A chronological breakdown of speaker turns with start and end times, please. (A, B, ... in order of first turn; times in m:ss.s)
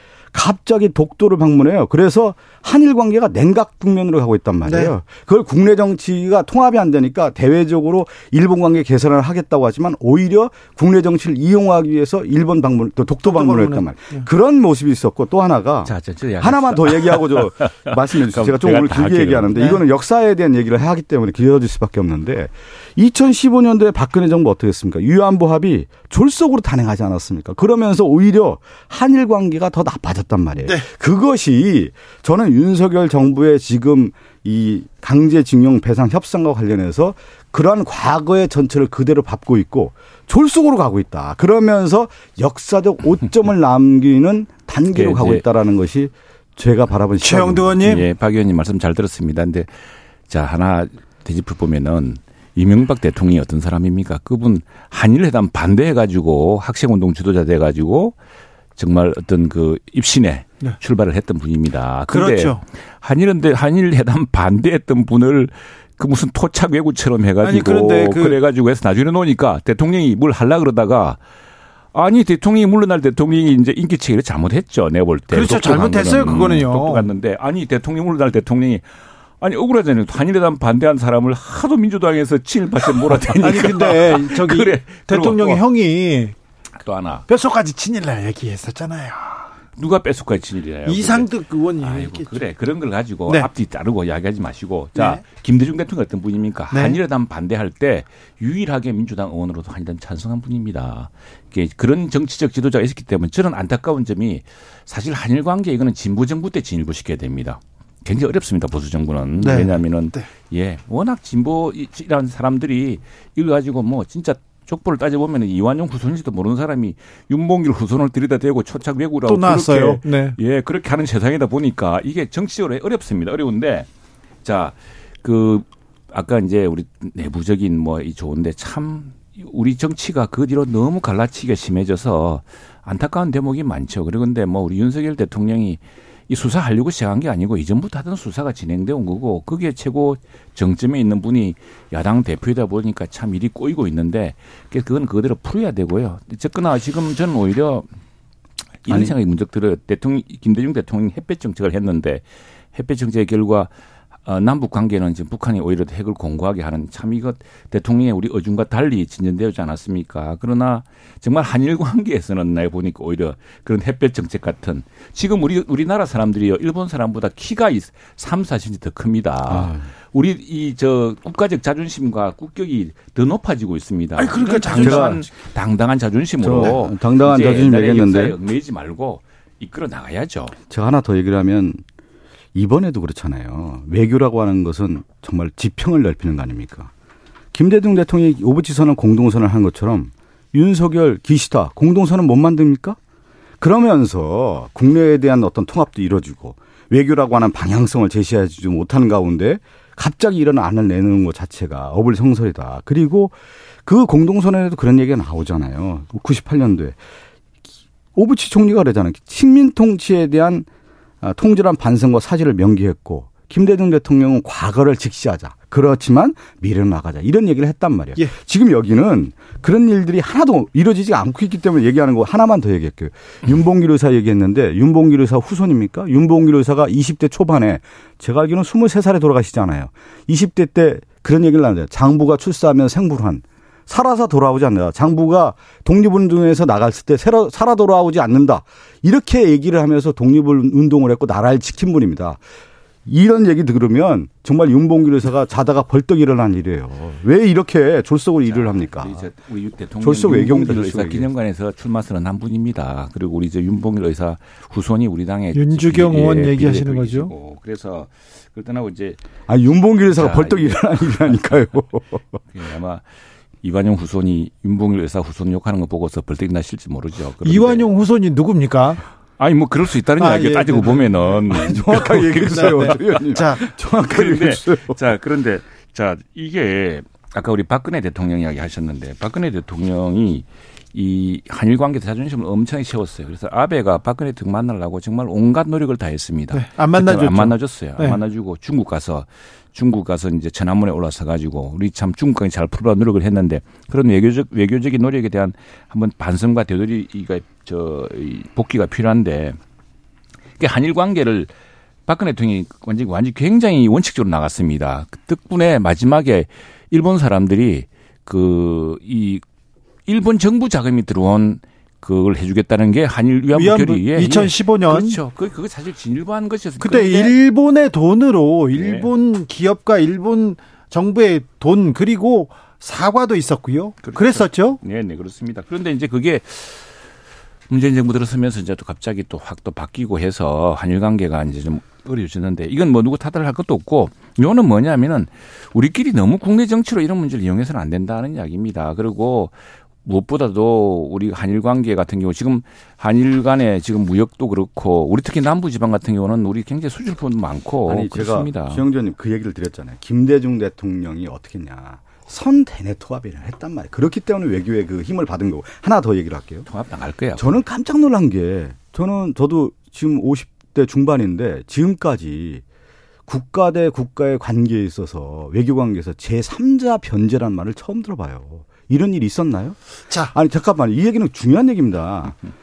0:00.3-0:47.8 A
0:04.6-0:04.9 B
0:13.2-0:14.3 B
0:15.8-0:19.8 C
0:19.6-0:19.8 B
0:44.9-0:45.5 C
0:47.2-0:48.1 B
0:47.8-0:58.2 C
0:58.8-1:11.2 C
1:02.1-1:02.6 B
1:07.4-1:08.4 B
1:11.9-1:25.6 C
1:15.3-1:17.1 B
1:23.4-1:26.4 B
1:26.8-1:27.2 C
1:27.3-1:29.5 B
1:29.8-2:03.9 C
1:30.9-1:32.4 B
1:35.0-1:35.2 B
1:36.7-1:37.0 B
1:49.4-1:50.2 B
1:59.3-2:00.4 B
2:04.4-2:27.9 C
2:28.8-2:33.7 C
2:28.9-2:29.1 A
2:34.2-3:00.6 C
2:49.5-2:49.8 A
2:54.2-2:55.3 B
2:54.8-2:55.2 A
2:56.4-2:58.4 A
3:00.7-3:01.8 A
3:02.6-3:06.9 A
3:07.5-3:13.0 A
3:13.6-3:27.0 A
3:28.2-3:30.7 A
3:31.2-4:02.4 A
4:03.1-4:09.3 A
4:08.4-4:19.2 C
4:10.0-4:11.3 A
4:15.5-4:17.3 B
4:19.5-4:22.2 A
4:20.1-4:21.6 C
4:22.5-4:23.1 C
4:23.6-4:27.9 C
4:27.4-4:29.0 B
4:29.4-4:33.3 C
4:30.2-4:32.0 B
4:31.6-4:35.0 A
4:32.5-4:33.6 B
4:34.1-4:59.6 C
4:46.5-4:48.2 B
5:00.6-5:01.5 C
5:02.1-5:09.4 C
5:10.1-5:17.3 C
5:13.5-5:15.2 B
5:16.8-5:24.8 B
5:18.7-5:19.1 C
5:24.0-5:26.9 C
5:27.7-5:48.8 C
5:47.9-5:56.7 A
5:56.7-5:57.6 C
5:57.4-6:02.6 A
6:03.3-6:09.8 A
6:10.1-6:10.4 B
6:10.3-6:12.4 A